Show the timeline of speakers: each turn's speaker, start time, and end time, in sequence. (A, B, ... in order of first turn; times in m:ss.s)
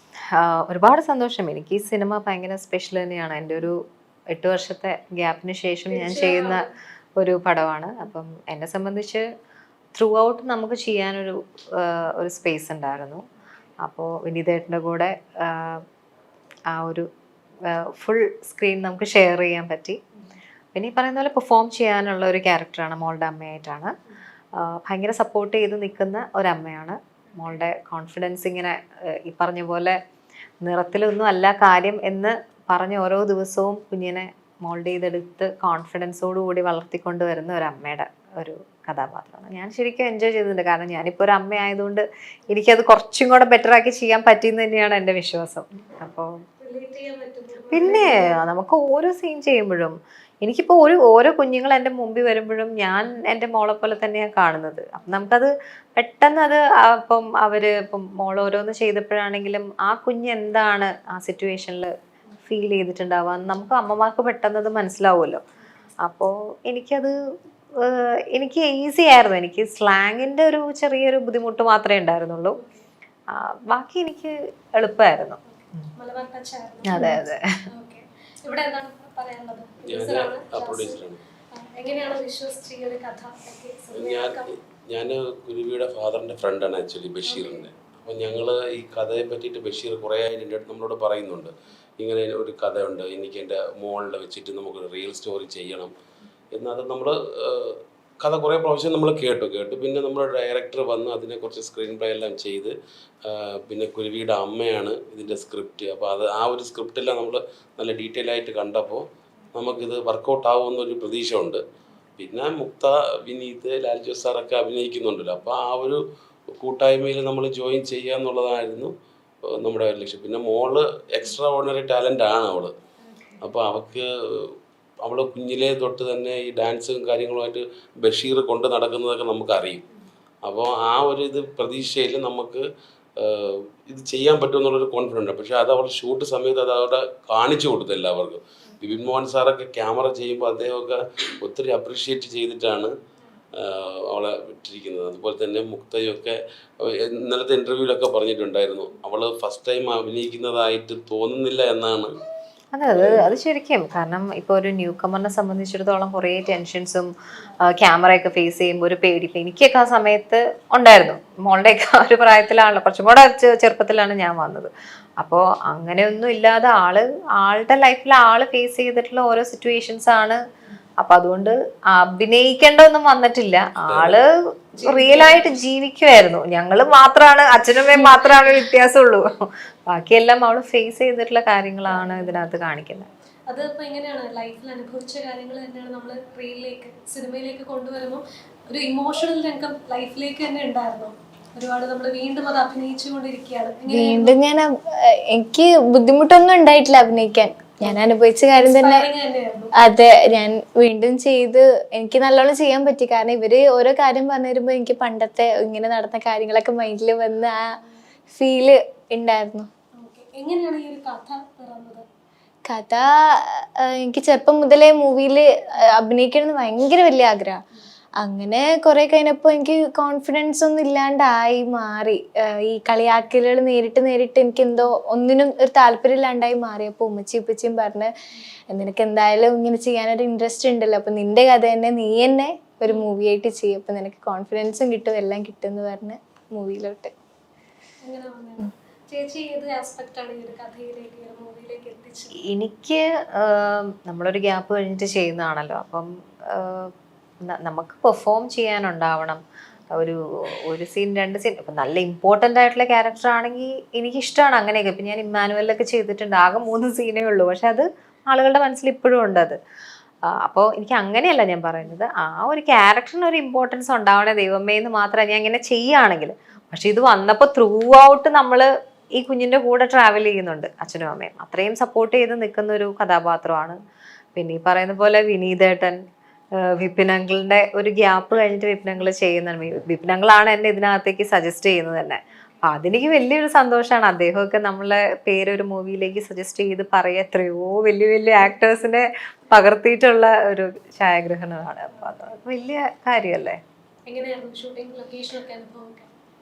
0:00.4-0:03.8 A
0:04.3-0:06.6 A
0:05.9-0:06.7 B
0:07.2-0:09.3 A
0:10.0-0:13.2 A
0:13.8-0:15.8 A
0:16.7-0:17.1 A
0:17.9-0:20.0 A
0:20.8-0:23.9 A
0:24.6-0:30.0 A
0:30.6-0:46.3 A
0:46.6-0:48.2 B
0:47.7-1:01.9 A
1:02.4-1:05.4 A
1:06.0-1:07.1 A
1:07.8-1:12.6 A
1:12.6-1:12.8 B
1:13.3-1:15.8 A
1:15.5-1:17.2 B
1:16.9-1:17.4 A
1:17.7-1:21.0 B
1:19.9-1:21.2 C
1:21.5-1:24.5 B
1:23.9-1:35.9 C
1:27.3-1:27.7 B
1:36.5-1:42.7 C
1:43.3-1:51.6 C
1:52.2-1:56.0 C
1:56.6-1:58.9 C
1:59.6-2:02.7 C
2:03.1-2:03.4 B
2:03.4-2:04.1 C
2:05.0-2:09.8 C
2:10.4-2:12.6 C
2:13.2-2:22.9 C
2:23.6-2:32.1 C
2:32.7-2:37.1 A
2:32.9-2:33.3 C
2:37.7-2:50.4 A
2:51.0-2:54.3 A
2:53.8-2:54.2 C
2:54.8-2:55.4 B
2:54.8-2:59.3 A
2:59.9-3:03.1 A
3:01.9-3:02.3 B
3:03.5-3:14.3 B
3:13.9-3:14.7 D
3:15.3-3:19.1 D
3:18.6-3:19.7 B
3:19.8-3:27.6 D
3:28.4-3:29.7 D
3:30.0-3:32.0 B
3:32.7-3:37.6 D
3:38.2-3:48.1 D
3:48.7-3:57.1 D
3:58.0-4:02.4 B
4:02.5-4:06.9 A
4:07.5-4:09.4 A
4:10.0-4:19.6 A
4:20.4-4:33.8 A
4:34.4-4:36.0 A
4:36.8-4:53.6 A
4:54.1-4:56.1 B